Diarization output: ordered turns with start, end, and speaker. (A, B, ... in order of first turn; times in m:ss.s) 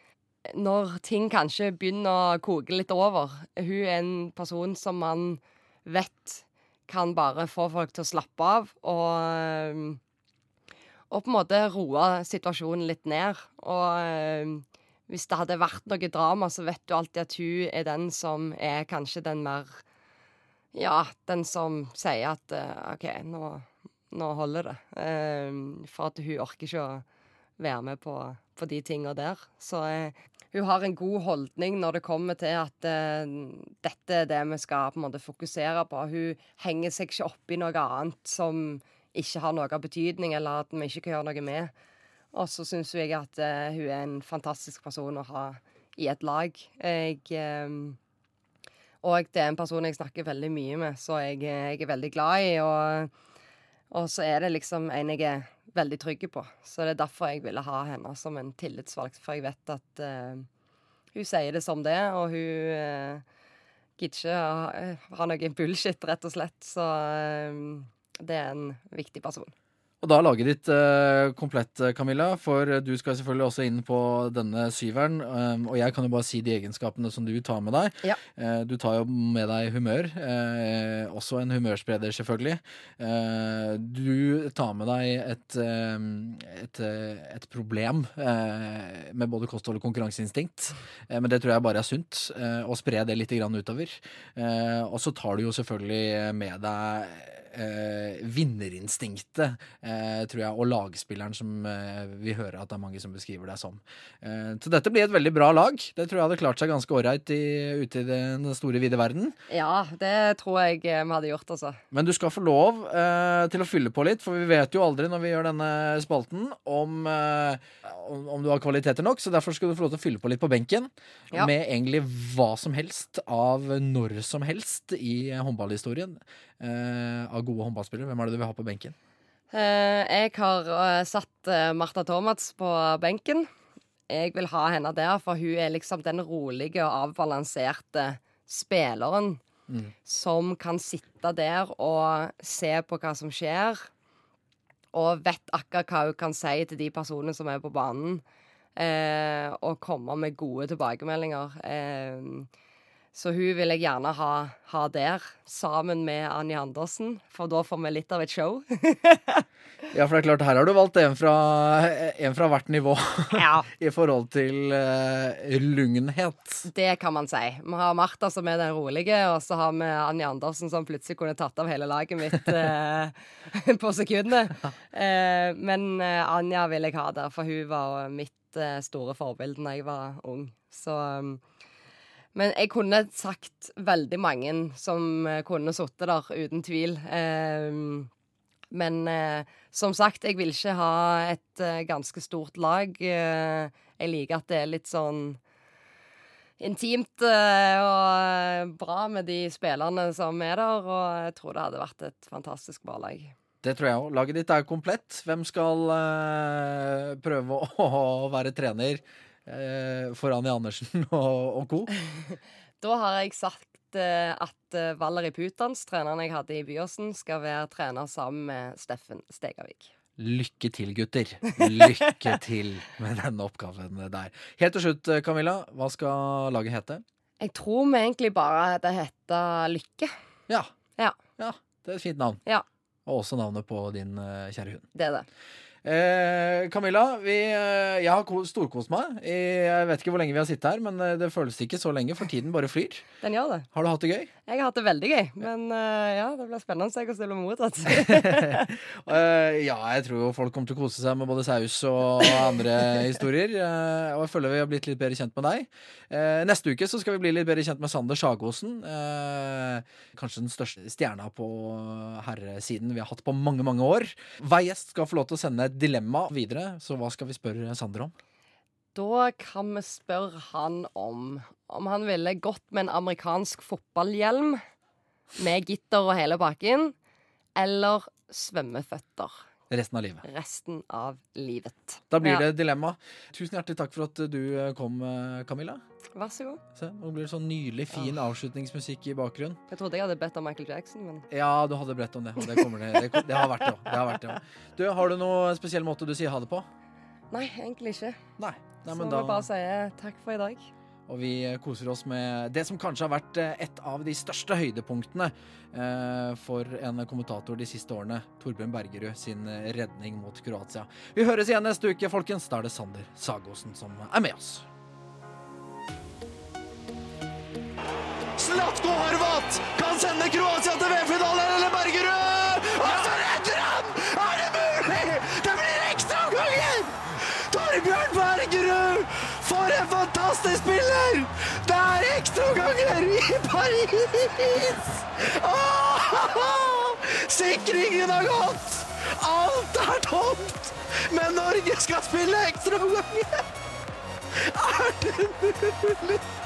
0:00.4-0:10.0 A
0:11.1-0:19.8 A
0:20.7-0:27.0 A
0:27.6-0:41.7 A
0:42.3-0:48.0 A
0:49.0-0:53.1 A
0:53.9-1:00.5 A
1:01.1-1:03.2 A
1:04.0-1:09.5 A
1:10.0-1:49.4 B
1:49.5-1:51.8 A
1:51.9-2:08.9 B
2:09.5-2:13.5 A
2:14.1-2:19.4 A
2:20.0-2:23.9 A
2:24.9-2:28.2 A
2:28.8-2:32.5 A
2:33.1-2:39.4 A
2:39.9-2:46.7 B
2:43.3-2:43.7 A
2:46.7-3:01.4 A
3:02.3-3:08.1 A
3:08.7-3:15.4 A
3:16.6-3:23.3 A
3:23.6-3:31.9 B
3:32.8-3:39.9 A
3:40.2-3:47.0 B
3:41.7-3:42.3 A
3:47.4-3:50.1 A
3:51.4-3:52.4 B
3:53.0-3:54.8 B
3:54.9-3:55.3 A
3:55.8-4:03.0 B
4:03.2-4:03.7 A
4:03.7-4:04.3 B
4:04.5-4:08.7 A
4:07.9-4:28.1 B
4:28.9-4:34.6 A
4:35.4-4:36.9 A
4:37.6-4:39.4 A
4:39.7-4:40.2 B
4:40.2-4:42.4 A
4:42.1-4:45.8 B
4:46.1-4:46.6 A
4:46.7-4:49.6 B
4:49.7-4:51.3 A
4:51.3-4:56.7 B
4:57.3-4:58.2 A
4:58.4-4:59.4 B
4:58.8-5:00.7 A
5:01.1-5:14.7 B
5:18.4-5:43.5 C
5:44.4-5:46.2 C